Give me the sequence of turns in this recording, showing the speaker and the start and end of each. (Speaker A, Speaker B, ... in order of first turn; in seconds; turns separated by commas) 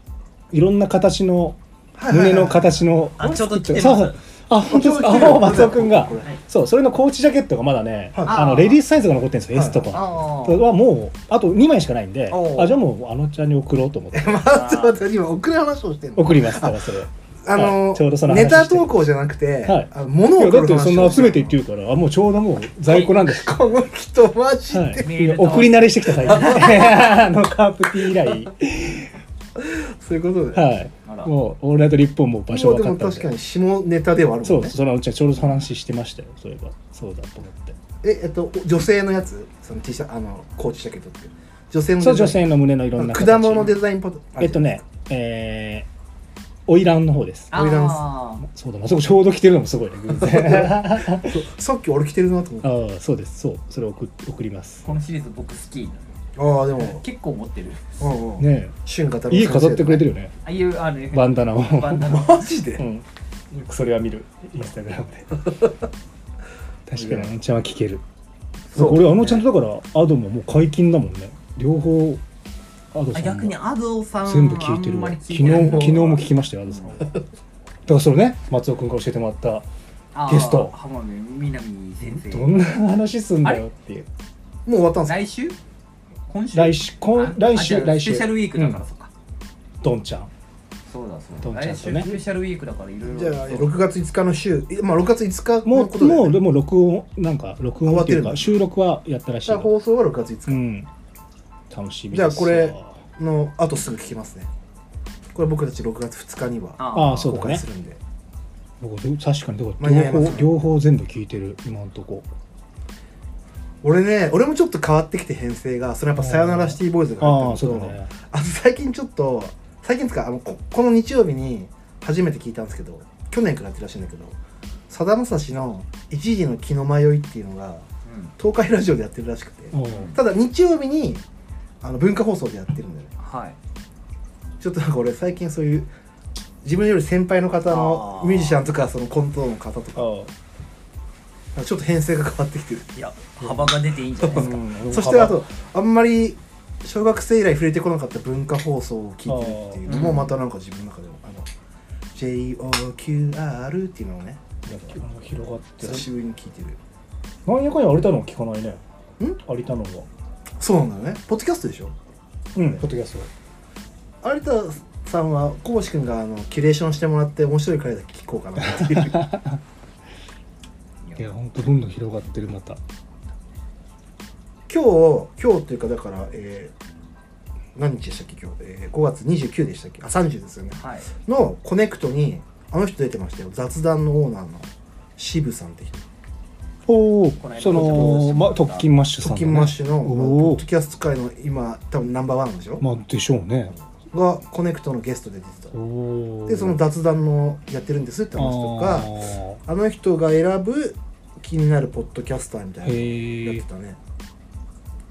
Speaker A: 0.5-14.4, Speaker B: 2.0-2.9, Speaker C: 3.2-4.2, Speaker B: 4.7-6.3, Speaker B: 8.1-8.5, Speaker C: 8.3-8.8, Speaker B: 9.5-10.0, Speaker C: 9.9-10.7, Speaker C: 12.3-12.8, Speaker B: 14.1-21.6, Speaker C: 14.4-15.0, Speaker A: 16.2-19.1, Speaker A: 19.6-23.6, Speaker B: 22.9-25.7, Speaker A: 24.7-29.1, Speaker C: 25.0-26.7, Speaker B: 26.2-27.2, Speaker B: 29.6-30.7, Speaker A: 30.5-33.3, Speaker C: 31.1-31.3, Speaker B: 32.5-34.7, Speaker A: 34.4-37.8, Speaker B: 38.0-42.4, Speaker A: 42.0-43.8, Speaker B: 43.0-44.8, Speaker A: 44.4-45.9, Speaker A: 46.7-47.5, Speaker C: 47.5-48.4, Speaker B: 47.5-48.1, Speaker A: 48.4-51.4, Speaker B: 50.2-52.8, Speaker A: 52.6-54.9, Speaker C: 54.8-56.1, Speaker B: 56.4-57.0, Speaker C: 56.8-58.0, Speaker B: 58.0-60.1, Speaker A: 58.4-58.7, Speaker A: 59.3-60.4, Speaker C: 60.4-62.5, Speaker A: 61.1-62.1, Speaker B: 62.1-62.9, Speaker A: 62.8-65.4, Speaker A: 66.9-68.0, Speaker B: 67.0-67.3, Speaker B: 68.7-69.5, Speaker A: 68.7-72.2, Speaker A: 72.9-73.6, Speaker C: 73.1-76.2, Speaker A: 74.2-77.1, Speaker B: 75.4-76.1, Speaker A: 77.9-79.7, Speaker C: 80.1-82.7, Speaker A: 80.3-80.7, Speaker A: 82.0-84.1, Speaker B: 84.7-85.2, Speaker C: 85.1-85.6, Speaker C: 86.3-89.1, Speaker A: 86.5-88.8, Speaker A: 89.8-90.3, Speaker C: 90.9-93.8, Speaker A: 91.4-92.2, Speaker B: 93.0-96.4, Speaker A: 95.7-99.7, Speaker B: 97.8-98.6, Speaker B: 99.5-100.6, Speaker A: 100.5-100.9, Speaker A: 101.7-103.0, Speaker B: 102.1-104.5, Speaker B: 105.3-108.0, Speaker C: 106.8-107.4, Speaker A: 106.9-107.6, Speaker A: 108.8-112.3, Speaker B: 109.8-110.5, Speaker B: 113.8-124.4, Speaker A: 116.2-118.1, Speaker B: 124.9-127.8, Speaker C: 128.1-128.3, Speaker B: 128.4-131.2, Speaker A: 129.7-130.1, Speaker C: 129.8-130.2, Speaker B: 131.8-133.1, Speaker C: 133.2-133.6, Speaker B: 134.6-135.9, Speaker B: 136.6-140.1, Speaker C: 137.7-138.6, Speaker A: 139.9-140.3, Speaker B: 141.6-142.9, Speaker C: 142.9-144.5, Speaker A: 143.4-143.7, Speaker A: 144.3-145.4, Speaker B: 144.3-151.5, Speaker A: 149.3-150.2, Speaker C: 149.9-150.4, Speaker B: 152.1-154.6, Speaker A: 154.7-156.1, Speaker B: 155.8-156.8, Speaker A: 157.4-158.8, Speaker A: 159.4-160.1, Speaker B: 160.6-161.9, Speaker A: 162.6-163.3, Speaker B: 164.2-169.3, Speaker A: 168.8-169.6, Speaker C: 171.0-171.3, Speaker A: 171.2-172.8, Speaker B: 174.7-176.7, Speaker B: 177.8-186.1, Speaker C: 180.7-181.1, Speaker A: 186.9-190.6, Speaker C: 187.4-188.9, Speaker B: 187.6-188.3, Speaker B: 189.2-192.8, Speaker A: 192.8-193.7, Speaker B: 194.1-195.7, Speaker A: 195.7-196.8, Speaker B: 196.5-204.0, Speaker A: 198.4-199.6, Speaker A: 202.8-203.6